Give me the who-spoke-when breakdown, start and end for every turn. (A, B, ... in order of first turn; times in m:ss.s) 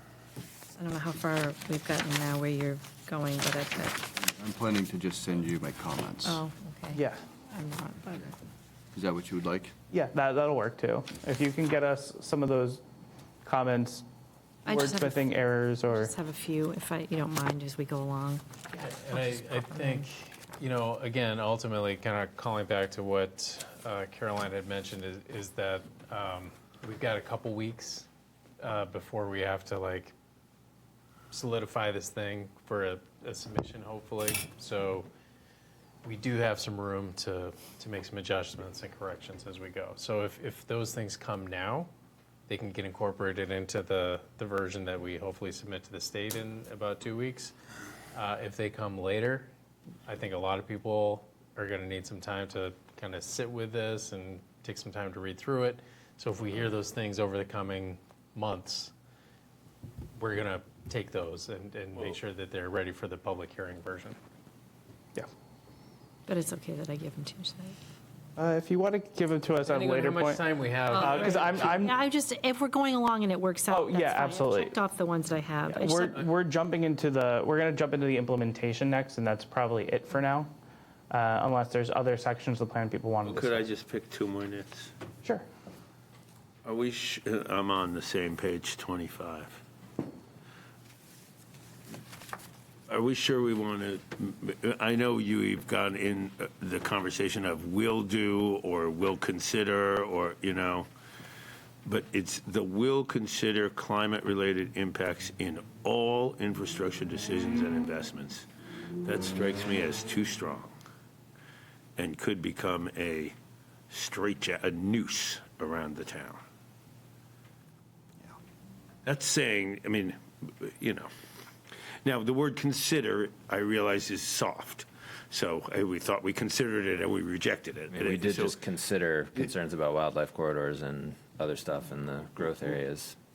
0:00.8-0:04.1 A
0:04.2-0:06.4 B
0:06.2-0:08.3 A
0:06.9-0:07.2 C
0:08.9-0:09.7 B
0:09.9-0:12.8 C
0:13.4-0:14.1 C
0:14.7-0:16.1 C
0:14.7-0:18.4 A
0:18.7-0:28.1 D
0:19.1-0:20.1 A
0:28.6-0:30.2 D
0:31.3-0:35.1 D
0:36.0-0:41.9 D
0:42.5-0:47.6 D
0:48.1-0:49.5 D
0:50.1-0:58.9 D
1:00.2-1:04.2 D
1:06.3-1:07.8 A
1:08.4-1:10.4 C
1:09.7-1:11.7 D
1:10.9-1:16.2 A
1:10.9-1:12.0 C
1:13.7-1:14.8 C
1:15.7-1:20.5 C
1:21.1-1:23.7 C
1:23.2-1:24.9 E
1:26.6-1:29.6 E
1:32.9-1:40.9 E
1:41.8-1:48.5 E
1:49.0-1:50.7 E
1:52.0-1:53.4 E
1:53.9-1:56.4 E
1:59.1-2:01.1 E
2:02.0-2:08.6 E
2:07.9-2:13.2 F